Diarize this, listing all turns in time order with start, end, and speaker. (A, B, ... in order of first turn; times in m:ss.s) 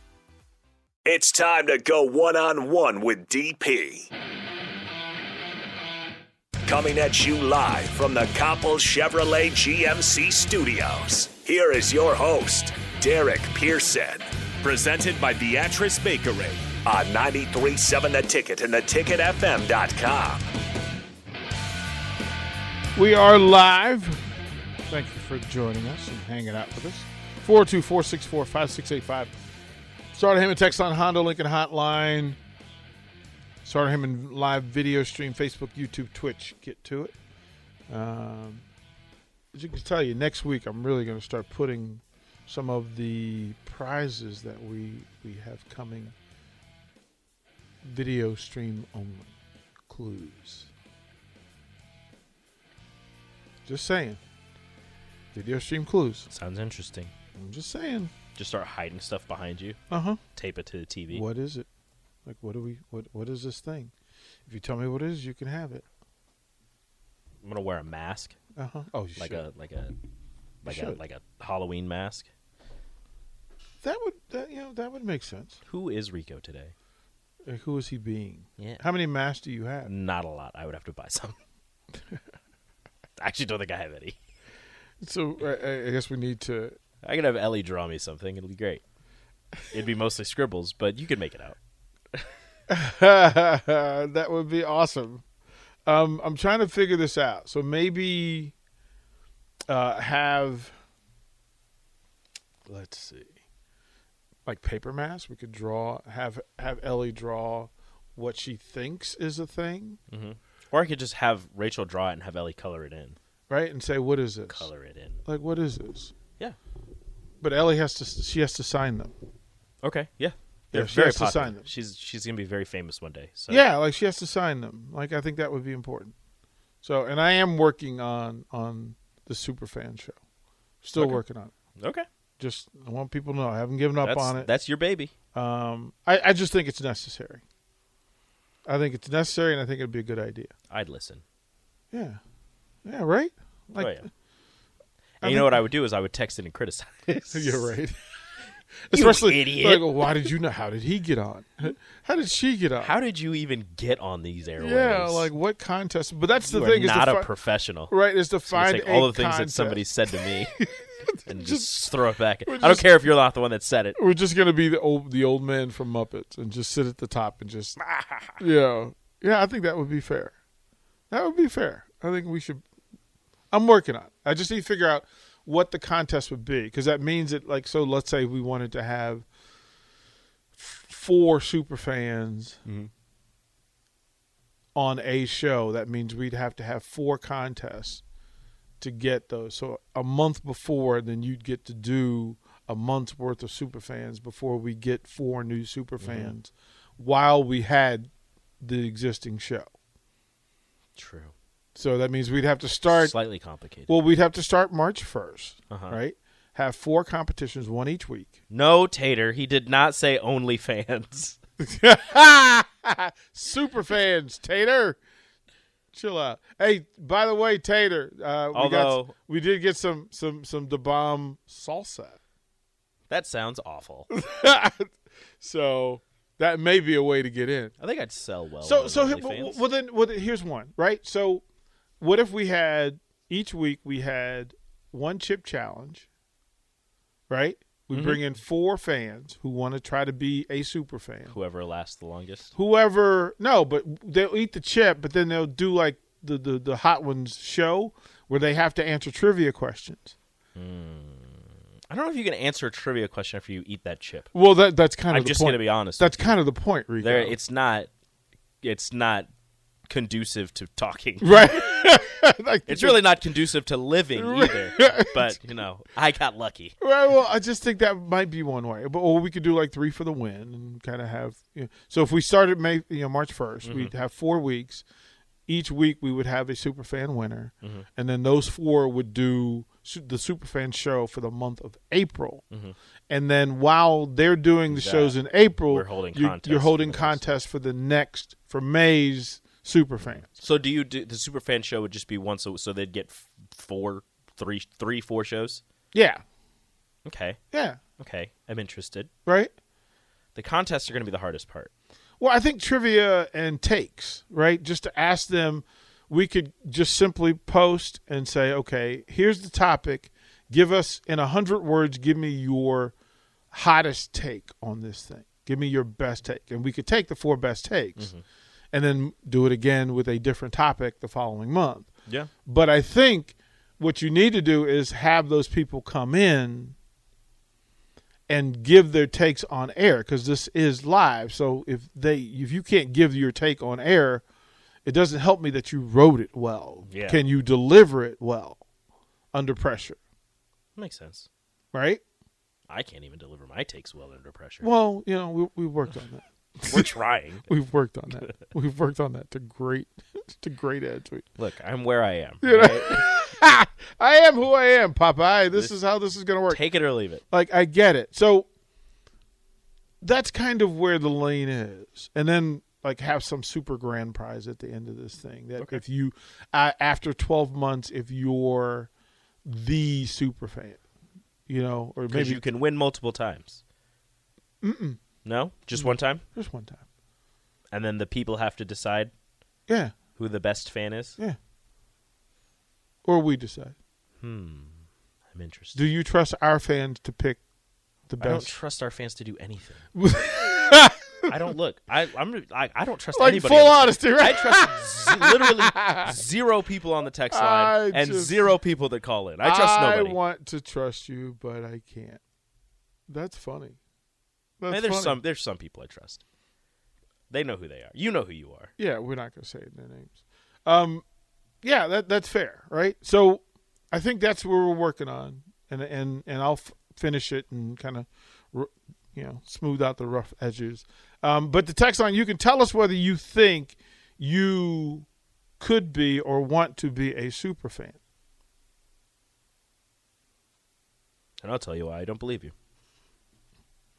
0:01.0-0:04.1 A
0:06.6-0:20.5 A
0:22.9-0:24.2 B
0:24.9-0:29.3 B
0:30.1-0:32.4 B
0:33.6-0:37.1 B
0:37.9-0:38.6 B
0:39.5-0:46.1 B
0:47.8-0:49.3 B
0:49.9-0:50.7 B
0:53.6-0:54.2 B
0:55.3-0:56.3 B
0:56.3-0:57.1 C
0:57.3-0:58.1 B
0:58.4-0:59.8 C
0:59.9-1:00.2 B
1:00.3-1:01.2 C
1:01.1-1:01.7 B
1:02.2-1:03.9 B
1:04.4-1:05.8 B
1:07.4-1:08.4 C
1:08.6-1:09.4 B
1:09.2-1:09.9 C
1:10.6-1:12.3 C
1:10.6-1:11.0 B
1:13.8-1:15.6 B
1:15.7-1:16.7 C
1:17.4-1:19.9 B
1:18.6-1:18.8 C
1:19.8-1:21.4 C
1:23.2-1:24.2 C
1:25.0-1:26.8 B
1:27.0-1:28.8 C
1:29.7-1:31.6 C
1:32.7-1:35.2 B
1:35.8-1:38.5 B
1:39.7-1:40.7 B
1:42.6-1:43.3 B
1:44.4-1:50.0 B
1:50.1-1:53.2 C
1:53.5-1:54.7 B
1:54.5-1:55.2 C
1:55.2-1:56.1 B
1:57.4-1:59.1 B
1:59.8-2:03.6 C
2:00.7-2:01.6 B
2:03.5-2:06.1 B
2:06.8-2:10.2 B
2:10.8-2:11.5 B
2:11.0-2:11.2 C
2:11.8-2:12.0 C
2:12.4-2:14.5 B
2:14.0-2:15.1 C
2:15.3-2:17.4 B
2:18.6-2:20.5 B
2:20.7-2:21.2 C
2:21.9-2:22.2 B
2:22.8-2:24.0 B
2:23.8-2:24.1 C
2:25.2-2:27.7 C
2:25.2-2:25.6 B
2:27.1-2:28.0 B
2:28.9-2:32.9 B
2:28.9-2:30.1 C
2:32.8-2:35.3 C
2:34.6-2:37.3 B
2:36.5-2:37.9 C
2:37.9-2:41.8 B
2:38.5-2:40.6 C
2:41.2-2:44.0 C
2:42.4-2:43.1 B
2:44.0-2:47.8 B
2:47.8-2:48.4 C
2:48.4-2:50.3 B
2:51.1-2:52.6 B
2:53.5-2:59.2 B
3:00.6-3:02.6 B
3:04.7-3:08.0 B
3:08.8-3:18.1 B
3:16.0-3:16.3 C
3:18.6-3:19.7 B
3:21.0-3:21.3 C
3:21.7-3:23.1 B
3:22.9-3:24.0 C
3:23.9-3:28.3 B
3:25.7-3:26.0 C
3:28.5-3:31.4 C
3:31.6-3:35.0 B
3:35.9-3:42.2 B
3:38.5-3:39.1 C
3:43.1-3:44.1 C
3:44.1-3:47.7 B
3:47.8-3:49.6 C
3:48.6-3:51.4 B
3:52.0-3:56.0 B
3:57.3-4:01.4 B
3:57.9-3:58.2 C
4:01.3-4:02.5 C
4:02.5-4:10.1 B
4:10.6-4:14.3 C
4:14.3-4:17.4 B
4:15.1-4:16.4 C
4:17.0-4:17.9 C
4:18.6-4:19.3 C
4:19.9-4:21.6 C
4:21.2-4:23.1 B
4:22.7-4:26.8 C
4:24.1-4:25.4 B
4:26.8-4:34.8 B
4:33.6-4:33.9 C
4:35.5-4:42.4 B
4:43.1-4:50.3 B
4:44.7-4:45.2 C
4:45.7-4:47.2 C
4:50.1-4:55.6 C
4:55.9-4:56.2 B
4:57.0-4:57.4 C
4:57.5-4:57.8 B
4:58.0-4:59.1 C
4:59.2-4:59.5 B
5:00.3-5:01.7 C
5:02.2-5:12.9 B
5:13.5-5:18.1 B
5:18.0-5:18.2 C
5:18.7-5:21.9 B
5:22.4-5:26.8 B
5:28.3-5:34.2 B
5:34.8-5:38.6 B
5:36.9-5:37.2 C
5:39.3-5:40.0 B
5:40.8-5:41.3 C
5:41.7-5:42.0 B
5:42.7-5:44.7 C
5:44.6-5:46.9 B
5:46.6-5:47.5 C
5:47.4-5:51.3 B
5:51.4-5:53.0 C
5:52.4-5:56.6 B
5:56.5-5:57.2 C
5:57.2-5:58.5 B
6:00.0-6:08.9 B
6:09.4-6:10.8 B
6:11.5-6:12.4 B
6:12.1-6:13.6 C
6:14.6-6:15.0 B
6:15.2-6:16.2 C
6:15.7-6:16.8 B
6:17.7-6:19.1 C
6:19.7-6:19.9 B
6:20.2-6:21.2 C
6:23.0-6:23.7 B
6:24.2-6:24.8 C
6:25.3-6:25.8 C
6:25.7-6:27.4 B
6:28.1-6:28.5 B
6:28.2-6:29.8 C
6:29.9-6:31.3 B
6:31.3-6:40.2 C
6:33.1-6:36.2 B
6:37.3-6:38.5 B
6:39.4-6:42.2 B
6:43.1-6:43.8 B
6:44.6-6:45.2 B
6:44.7-6:46.2 C
6:47.3-6:48.7 C
6:48.8-6:51.0 B
6:51.6-7:05.0 B
7:05.6-7:08.0 B
7:11.4-7:12.5 C